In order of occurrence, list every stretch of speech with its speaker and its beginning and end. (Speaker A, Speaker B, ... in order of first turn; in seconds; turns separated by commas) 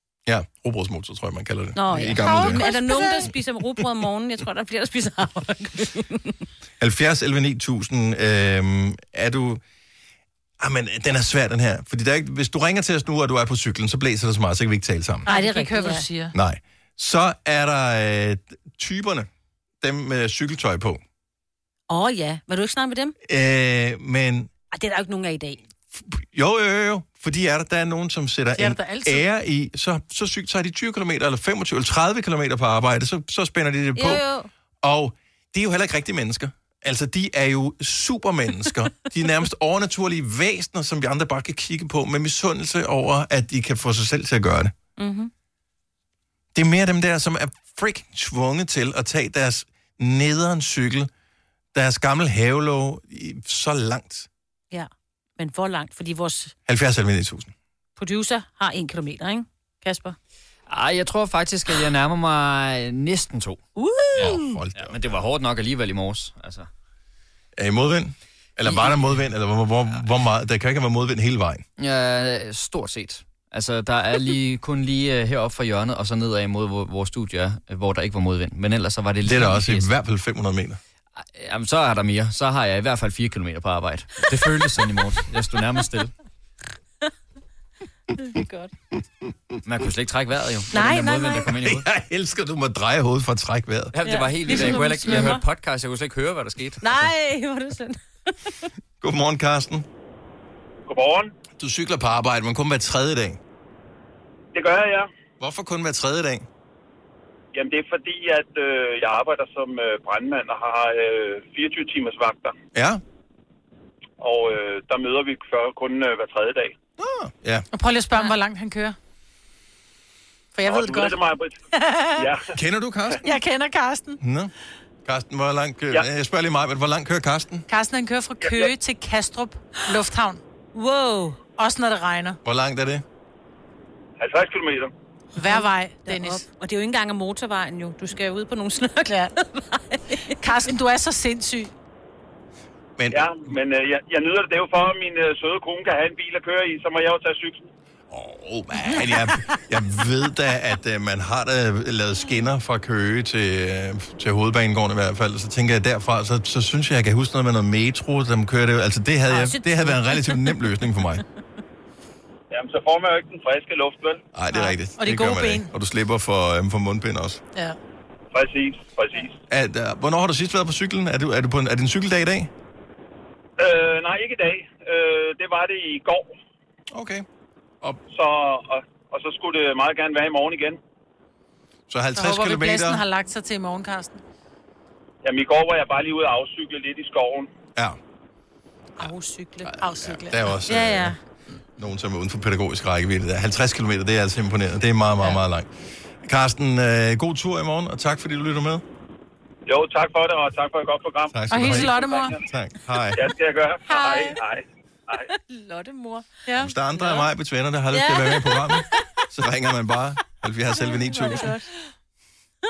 Speaker A: 0.2-2.7, Speaker B: 1.7-6.4, Speaker C: 2.2-3.3, Speaker A: 6.8-9.6, Speaker A: 10.6-15.3, Speaker B: 15.2-16.1, Speaker C: 15.2-16.3, Speaker A: 16.3-19.3, Speaker A: 19.8-21.0, Speaker B: 21.9-23.1, Speaker A: 23.2-24.5, Speaker B: 24.7-25.6, Speaker A: 25.9-34.2, Speaker C: 28.6-29.2, Speaker B: 34.0-34.5, Speaker A: 34.8-44.7, Speaker B: 45.0-45.3, Speaker A: 46.5-51.1, Speaker A: 51.7-54.3, Speaker B: 54.7-56.5, Speaker A: 56.6-57.5, Speaker B: 58.0-60.1, Speaker D: 60.7-63.6, Speaker B: 63.8-64.5, Speaker D: 64.2-66.7, Speaker A: 64.2-65.0, Speaker A: 67.5-71.6, Speaker D: 71.8-79.9, Speaker A: 79.2-80.8, Speaker D: 81.2-86.1, Speaker B: 88.2-88.7, Speaker D: 89.6-91.9, Speaker B: 90.7-91.5, Speaker A: 91.5-94.0, Speaker D: 93.9-96.9, Speaker B: 94.0-95.4, Speaker B: 96.8-98.7, Speaker A: 99.0-99.9, Speaker E: 100.9-101.3, Speaker A: 101.6-103.4, Speaker E: 104.5-105.1, Speaker A: 105.4-106.5, Speaker E: 107.5-112.5, Speaker A: 112.7-113.0, Speaker E: 114.2-116.7, Speaker A: 117.0-117.7, Speaker C: 117.7-119.0, Speaker C: 120.5-121.2, Speaker E: 120.6-121.5, Speaker C: 121.7-122.3, Speaker E: 122.2-122.4, Speaker A: 122.5-123.2, Speaker C: 123.2-124.2, Speaker A: 124.2-124.5, Speaker A: 125.0-127.7, Speaker C: 127.7-130.4, Speaker B: 130.7-131.4, Speaker C: 131.6-132.4, Speaker A: 132.4-133.0, Speaker E: 134.2-134.9, Speaker B: 135.3-140.4, Speaker C: 135.4-136.4, Speaker C: 140.4-141.7, Speaker A: 143.0-143.5, Speaker E: 143.1-147.7, Speaker A: 148.1-161.2, Speaker B: 159.3-160.6, Speaker E: 162.5-164.2, Speaker A: 164.3-167.4, Speaker C: 164.5-165.7, Speaker E: 168.3-169.4, Speaker A: 169.5-172.5, Speaker E: 173.6-176.3, Speaker A: 176.9-177.2, Speaker E: 178.1-180.8, Speaker A: 181.9-183.0, Speaker C: 182.2-184.2, Speaker E: 185.2-187.5, Speaker B: 189.0-189.6, Speaker C: 189.6-190.5, Speaker A: 189.6-191.2, Speaker B: 190.7-191.2, Speaker A: 191.8-195.7, Speaker A: 196.2-198.8, Speaker E: 199.7-202.5, Speaker A: 201.3-203.2, Speaker C: 201.5-202.3, Speaker E: 203.1-205.3, Speaker C: 203.9-204.3, Speaker B: 205.5-206.4, Speaker C: 206.4-206.7, Speaker A: 206.6-211.6, Speaker B: 207.0-207.3, Speaker B: 207.9-208.8, Speaker B: 210.8-211.7